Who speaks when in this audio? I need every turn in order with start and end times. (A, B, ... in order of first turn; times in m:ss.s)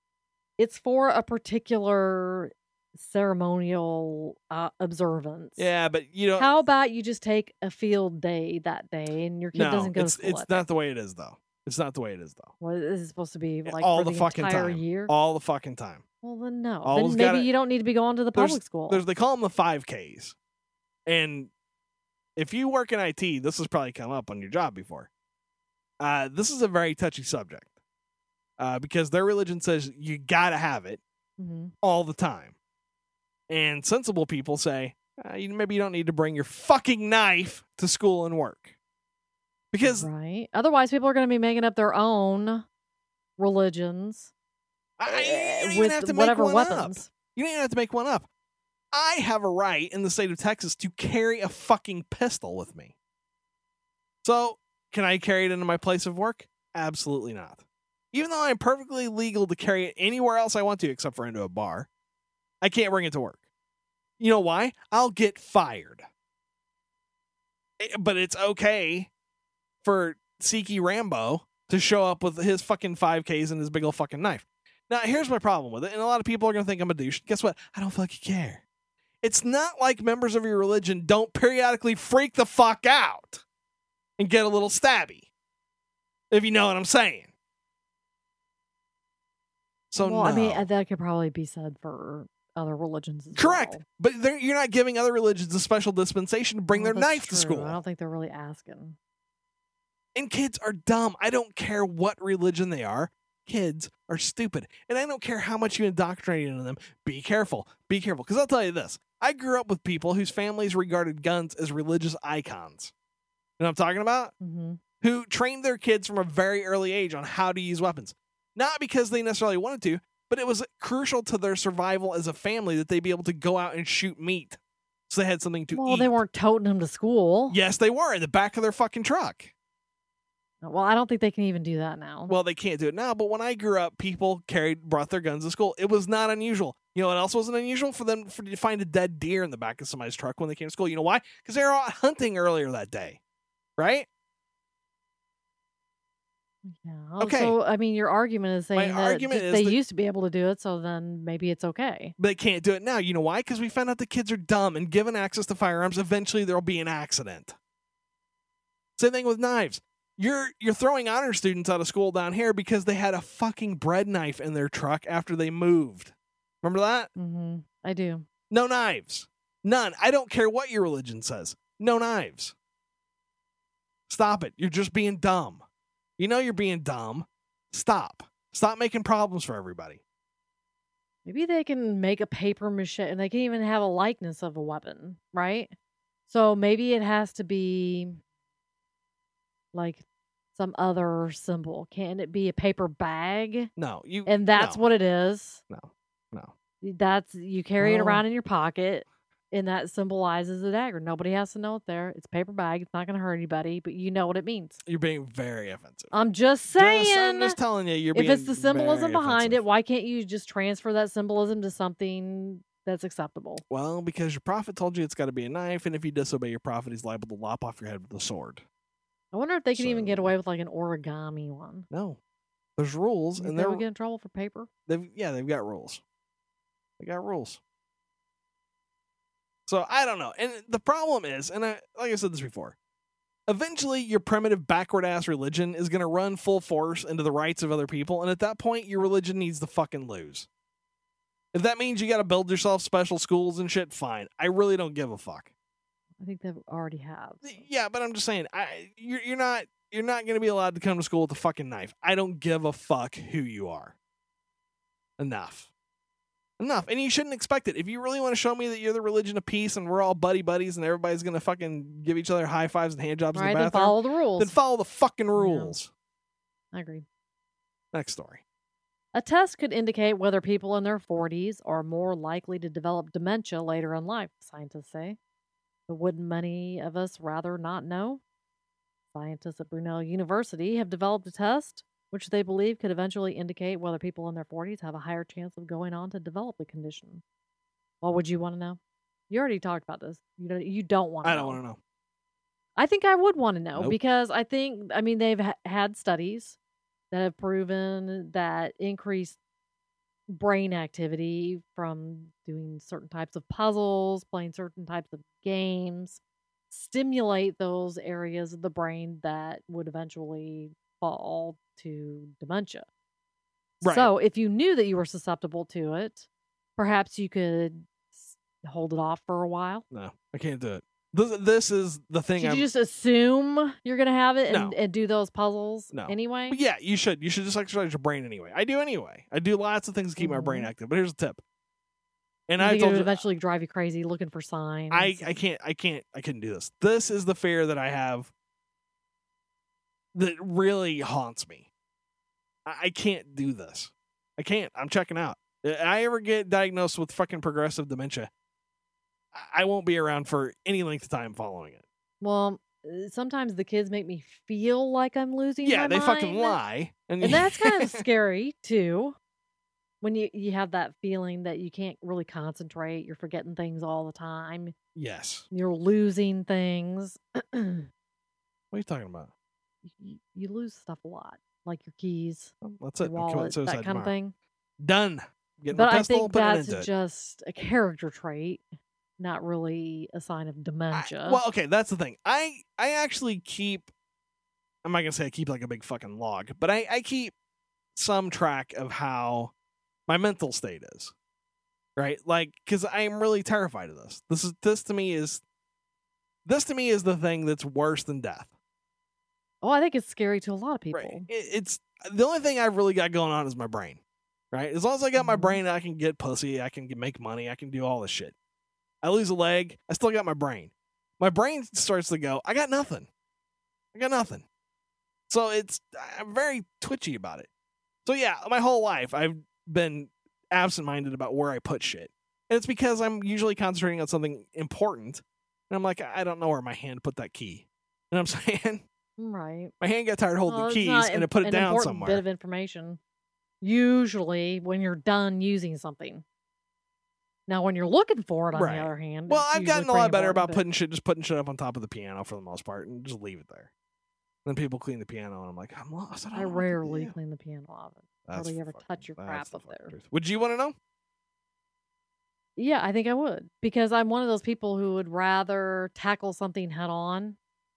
0:00.6-0:05.6 A
0:05.6-0:06.6 B
0:06.4-0:10.6 A
0:09.5-0:12.5 B
0:12.6-0:15.1 A
0:13.6-0:16.0 B
0:16.2-0:19.0 A
0:16.8-0:17.5 B
0:18.3-0:20.4 B
0:21.1-0:21.5 B
0:22.4-0:25.1 B
0:26.0-0:27.7 B
0:28.6-0:31.0 B
0:31.4-0:31.7 A
0:31.8-0:32.5 B
0:33.5-0:38.7 B
0:39.7-0:40.1 B
0:39.8-0:42.6 A
0:43.4-0:44.3 A
0:45.0-0:48.3 B
0:45.0-0:47.1 A
0:48.9-0:52.9 B
0:54.2-1:01.9 B
1:02.6-1:03.4 B
1:04.2-1:06.0 B
1:07.8-1:09.1 B
1:09.8-1:18.6 B
1:19.2-1:23.4 B
1:24.2-1:25.2 B
1:26.3-1:27.3 B
1:29.9-1:30.6 B
1:30.0-1:33.8 A
1:33.4-1:37.8 B
1:36.7-1:39.0 A
1:40.1-1:52.9 B
1:53.6-1:54.3 B
1:54.4-1:54.8 A
1:55.0-2:06.2 B
2:05.7-2:07.6 A
2:07.5-2:09.5 B
2:10.6-2:12.3 A
2:12.3-2:23.2 B
2:23.8-2:24.1 B
2:26.6-2:32.1 A
2:27.2-2:27.6 B
2:28.7-2:29.8 B
2:32.2-2:37.5 B
2:39.0-2:47.1 B
2:47.2-2:48.2 A
2:48.5-2:52.5 B
2:54.1-2:55.6 B
2:56.2-3:00.0 B
3:01.2-3:05.7 A
3:06.3-3:08.2 A
3:09.7-3:13.7 A
3:13.8-3:14.8 B
3:14.2-3:15.6 A
3:15.7-3:16.5 B
3:16.8-3:24.8 A
3:17.8-3:18.2 B
3:24.8-3:26.1 B
3:26.1-3:27.6 A
3:26.7-3:29.6 B
3:28.1-3:33.6 A
3:33.7-3:38.6 B
3:39.3-3:41.9 A
3:39.7-3:40.3 B
3:41.9-3:42.2 B
3:42.8-3:43.8 B
3:43.4-3:44.7 A
3:44.9-3:46.0 B
3:47.0-3:47.6 B
3:49.7-3:52.8 B
3:53.5-4:00.5 B
4:01.5-4:05.5 B
4:06.2-4:07.6 A
4:07.4-4:13.9 B
4:15.2-4:15.7 B
4:16.6-4:25.9 B
4:23.3-4:24.6 A
4:25.3-4:25.8 A
4:26.7-4:27.0 A
4:27.9-4:28.4 B
4:29.1-4:35.2 A
4:35.9-4:38.2 A
4:39.1-4:47.2 A
4:48.0-4:48.8 A
4:49.3-4:51.6 A
4:51.2-4:51.8 B
4:52.8-4:56.6 A
4:57.1-4:59.4 A
5:00.3-5:06.2 A
5:06.7-5:12.8 A
5:13.8-5:14.1 B
5:13.8-5:19.8 A
5:19.9-5:22.7 B
5:22.4-5:26.6 A
5:24.5-5:24.8 B
5:25.9-5:31.4 B
5:30.2-5:30.7 A
5:32.5-5:33.2 B
5:32.6-5:35.4 A
5:34.9-5:38.3 B
5:40.1-5:41.6 B
5:42.6-5:48.3 B
5:49.3-5:51.8 B
5:52.2-5:56.6 A
5:55.6-5:58.0 B
5:57.2-5:59.2 A
6:00.0-6:04.7 A
6:04.9-6:05.5 B
6:05.5-6:07.9 A
6:08.7-6:09.3 B
6:09.8-6:14.3 A
6:12.6-6:14.1 B
6:14.8-6:16.9 B
6:15.7-6:21.4 A
6:20.9-6:23.9 B
6:24.8-6:27.3 B
6:27.9-6:29.5 B
6:30.1-6:31.1 B
6:32.0-6:35.4 B
6:36.4-6:38.5 B
6:39.6-6:41.3 A
6:40.9-6:44.0 B
6:44.5-6:48.3 B
6:45.2-6:45.6 A
6:49.0-6:53.1 B
6:53.9-6:54.4 B
6:55.3-6:57.5 B
6:58.0-7:08.8 B
7:09.2-7:09.7 A
7:09.8-7:12.2 B
7:10.5-7:13.0 A
7:13.6-7:16.2 A
7:17.5-7:20.6 A
7:18.5-7:23.7 B
7:24.4-7:27.1 B
7:26.3-7:30.0 A
7:28.2-7:30.8 B
7:32.6-7:37.4 A